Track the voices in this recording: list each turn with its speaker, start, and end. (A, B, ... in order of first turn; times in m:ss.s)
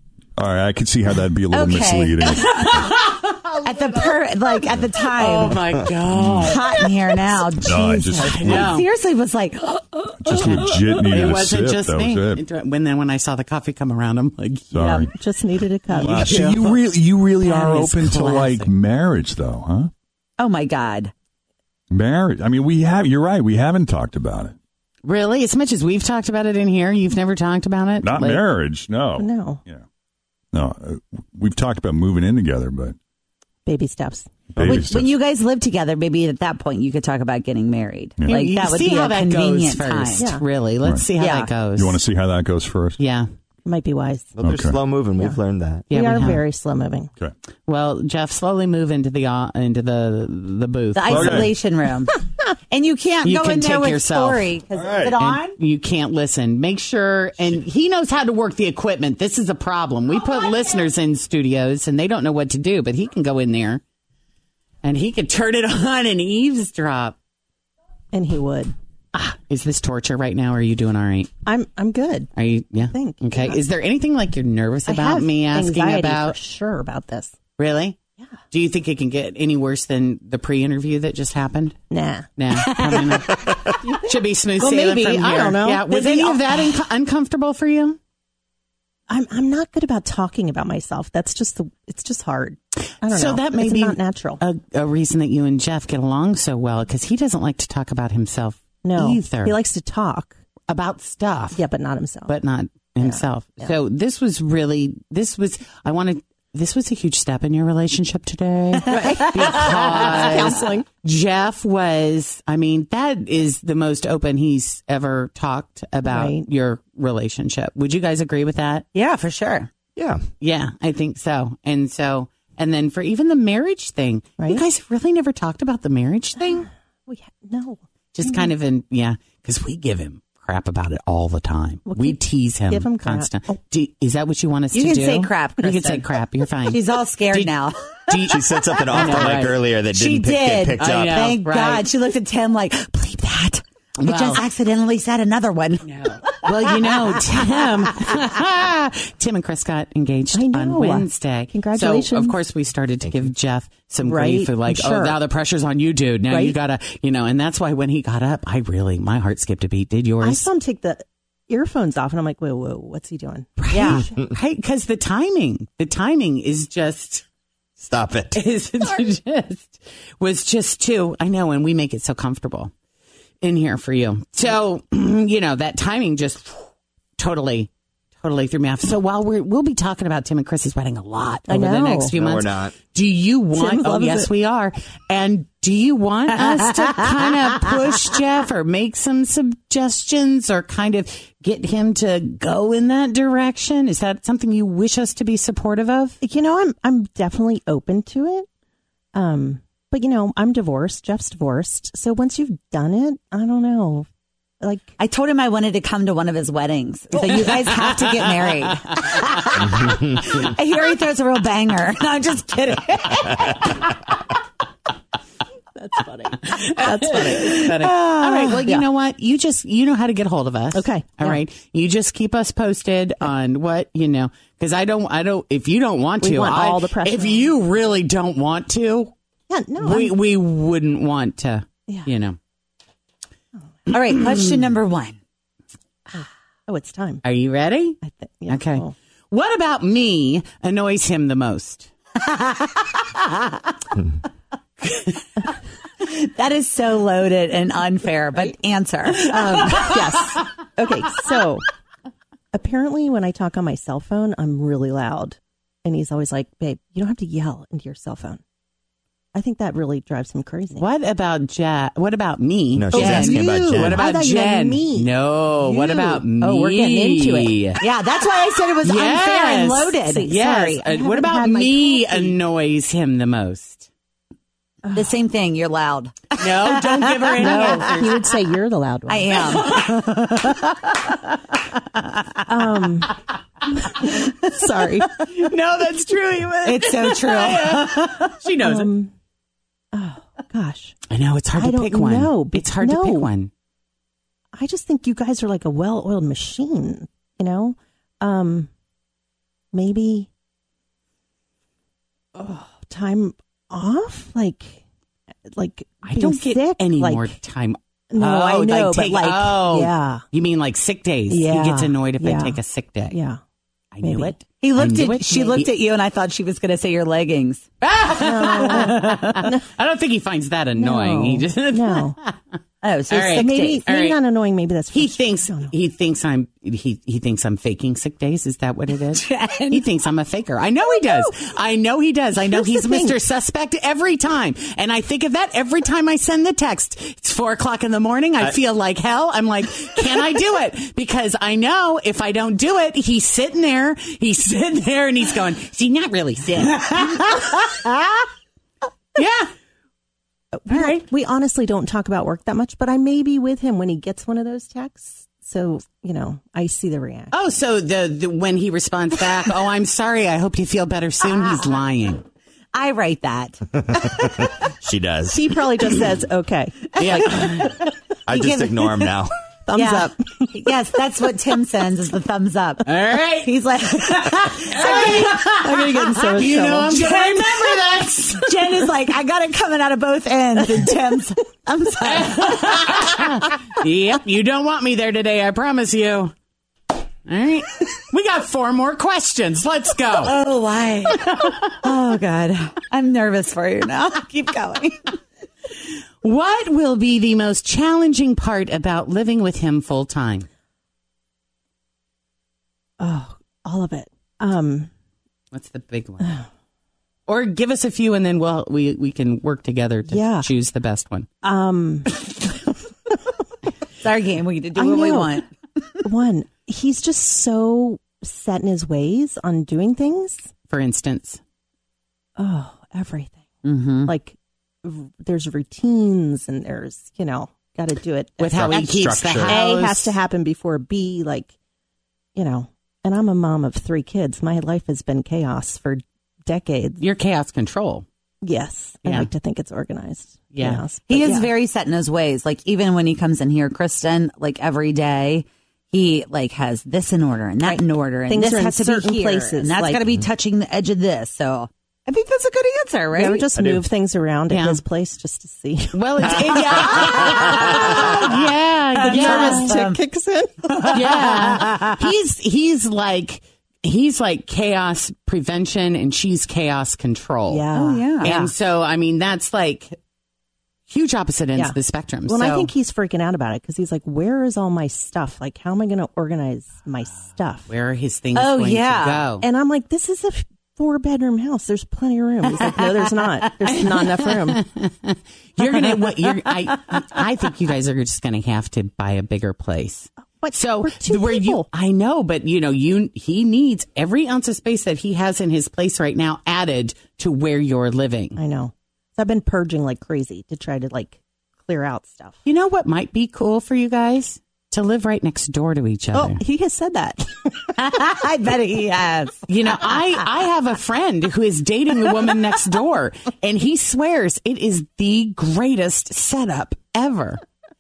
0:00.4-0:02.9 A
0:01.5-0:02.9 B
0:02.7-0:04.0 C
0:03.6-0:05.6 B
0:05.2-0:06.9 C
0:06.1-0:06.6 A
0:06.4-0:11.0 B
0:07.6-0:08.8 A
0:08.2-0:08.9 C
0:10.2-0:12.4 A
0:10.4-0:14.7 C
0:14.7-0:15.1 A
0:14.8-0:15.1 B
0:15.1-0:16.7 D
0:15.9-0:16.8 C
0:16.0-0:19.9 A
0:17.4-0:18.7 C
0:20.4-0:21.1 B
0:21.9-0:24.6 A
0:25.0-0:28.4 C
0:28.0-0:29.8 A
0:29.2-0:29.6 D
0:30.5-0:33.0 A
0:33.7-0:34.3 D
0:34.5-0:35.1 A
0:34.6-0:40.3 B
0:38.3-0:42.0 C
0:40.2-0:40.4 D
0:41.2-0:41.5 B
0:41.8-0:43.0 A
0:43.0-0:43.3 C
0:43.6-0:44.3 D
0:44.4-0:45.9 E
0:44.4-0:44.8 A
0:45.9-0:46.4 C
0:45.9-0:47.1 D
0:47.7-0:51.5 C
0:50.9-0:52.2 B
0:51.1-0:51.5 A
0:52.7-0:55.6 B
0:53.2-0:54.5 C
0:54.8-0:55.2 A
0:55.2-1:03.8 C
1:04.8-1:07.2 C
1:08.1-1:09.4 D
1:09.5-1:11.3 C
1:11.5-1:12.3 D
1:12.4-1:16.4 C
1:12.8-1:13.6 D
1:14.9-1:17.4 D
1:17.6-1:18.0 C
1:18.5-1:21.8 C
1:21.9-1:22.3 D
1:22.4-1:28.0 C
1:22.7-1:23.1 B
1:23.8-1:26.7 D
1:29.1-1:34.4 D
1:33.0-1:39.6 C
1:38.8-1:40.4 D
1:40.7-1:41.6 C
1:41.5-1:42.4 D
1:42.3-1:58.9 C
1:43.0-1:43.7 D
1:48.9-1:50.9 D
1:49.0-1:50.3 B
1:56.1-1:56.5 D
1:58.9-1:59.7 B
2:00.4-2:06.7 C
2:04.4-2:04.6 D
2:07.1-2:08.5 D
2:08.1-2:17.6 C
2:11.9-2:13.4 D
2:14.7-2:16.0 B
2:16.7-2:17.8 B
2:18.1-2:18.4 C
2:18.3-2:21.3 E
2:18.9-2:19.6 C
2:19.9-2:26.7 B
2:20.8-2:21.8 C
2:24.0-2:24.4 C
2:25.8-2:40.5 C
2:30.3-2:32.4 D
2:34.0-2:35.2 D
2:36.3-2:36.6 D
2:40.2-2:44.1 D
2:43.7-2:47.2 C
2:47.8-2:48.4 E
2:48.3-2:52.7 C
2:53.4-3:16.2 C
3:01.5-3:02.1 D
3:02.2-3:02.8 E
3:03.6-3:04.3 D
3:16.2-3:18.5 D
3:19.1-3:24.1 D
3:24.6-3:25.0 D
3:25.0-3:33.7 B
3:35.8-3:37.9 D
3:36.5-3:49.1 C
3:37.5-3:38.6 B
3:40.7-3:41.4 D
3:46.2-3:47.5 D
3:49.5-3:50.2 D
3:49.8-3:52.4 C
3:53.9-3:55.2 B
3:56.1-3:57.2 D
3:57.2-4:01.9 C
3:58.0-3:58.9 D
4:02.2-4:03.5 B
4:06.0-4:09.9 B
4:09.1-4:11.6 D
4:12.5-4:18.4 D
4:19.3-4:20.9 D
4:20.8-4:27.8 C
4:22.8-4:24.0 E
4:22.9-4:23.3 B
4:22.9-4:27.8 D
4:27.8-4:30.4 B
4:28.8-4:33.9 C
4:30.0-4:32.4 D
4:34.9-4:37.9 B
4:36.4-4:38.2 C
4:37.4-4:39.7 D
4:39.1-4:41.0 B
4:39.7-4:40.0 C
4:42.5-4:43.1 D
4:44.0-4:45.5 D
4:45.2-4:48.9 C
4:46.6-4:48.3 B
4:48.6-4:49.1 D
4:49.9-4:51.0 D
4:51.1-4:53.5 C
4:51.5-4:53.3 D
4:54.6-4:58.7 D
4:59.7-5:00.3 D
5:02.4-5:04.8 D
5:05.5-5:07.3 D
5:06.0-5:13.2 C
5:08.1-5:10.2 D
5:11.3-5:12.6 D
5:13.1-5:13.4 D
5:13.9-5:15.7 C
5:14.0-5:14.3 D
5:14.6-5:17.7 B
5:17.8-5:22.4 C
5:18.1-5:19.6 D
5:18.5-5:19.5 B
5:20.8-5:22.2 D
5:22.8-5:23.8 B
5:23.1-5:24.2 C
5:23.3-5:25.7 D
5:24.9-5:48.0 C
5:29.2-5:29.8 B
5:30.9-5:31.3 D
5:32.4-5:33.2 D
5:49.2-5:49.5 C
5:50.5-5:57.3 D
5:50.7-5:51.0 C
5:57.3-6:02.2 C
6:02.7-6:04.0 B
6:03.9-6:05.4 E
6:05.3-6:07.8 D
6:07.0-6:07.8 C
6:08.3-6:09.3 E
6:08.3-6:09.1 B
6:09.7-6:10.5 D
6:09.8-6:15.4 B
6:12.9-6:13.5 C
6:14.2-6:18.6 C
6:14.8-6:17.0 D
6:16.8-6:17.7 B
6:18.3-6:22.9 B
6:22.1-6:26.3 C
6:27.3-6:30.4 C
6:30.2-6:35.1 B
6:31.2-6:31.7 C
6:36.2-6:40.5 C
6:43.0-6:44.9 D
6:45.5-6:46.4 C
6:47.3-6:51.3 C
6:50.1-6:50.5 D
6:51.4-6:52.2 D
6:54.0-6:55.5 B
6:54.8-6:55.4 D
6:56.0-7:00.5 D
7:00.7-7:01.4 C
7:02.4-7:03.5 D
7:03.6-7:04.1 B
7:04.0-7:11.5 D
7:08.4-7:10.1 C
7:12.4-7:17.0 D
7:17.0-7:18.0 C
7:18.4-7:21.5 D
7:20.5-7:20.8 C
7:21.1-7:33.5 B
7:27.6-7:30.0 D
7:33.1-7:38.2 D
7:34.5-7:34.8 C
7:35.9-7:39.7 C
7:37.2-7:38.1 B
7:39.0-7:40.0 B
7:39.1-7:41.2 D
7:40.7-7:42.0 B
7:40.9-7:47.7 C
7:47.5-7:48.5 D
7:47.8-7:48.3 B
7:48.2-7:50.0 C
7:50.9-7:52.7 C
7:52.3-7:57.7 D
7:57.7-7:59.5 C
7:58.4-7:59.2 B
7:59.4-8:04.6 D
8:03.9-8:18.4 C
8:10.4-8:11.7 D
8:18.4-8:22.4 D
8:22.4-8:26.4 C
8:26.1-8:27.7 D
8:27.8-8:29.5 B
8:29.5-8:37.4 C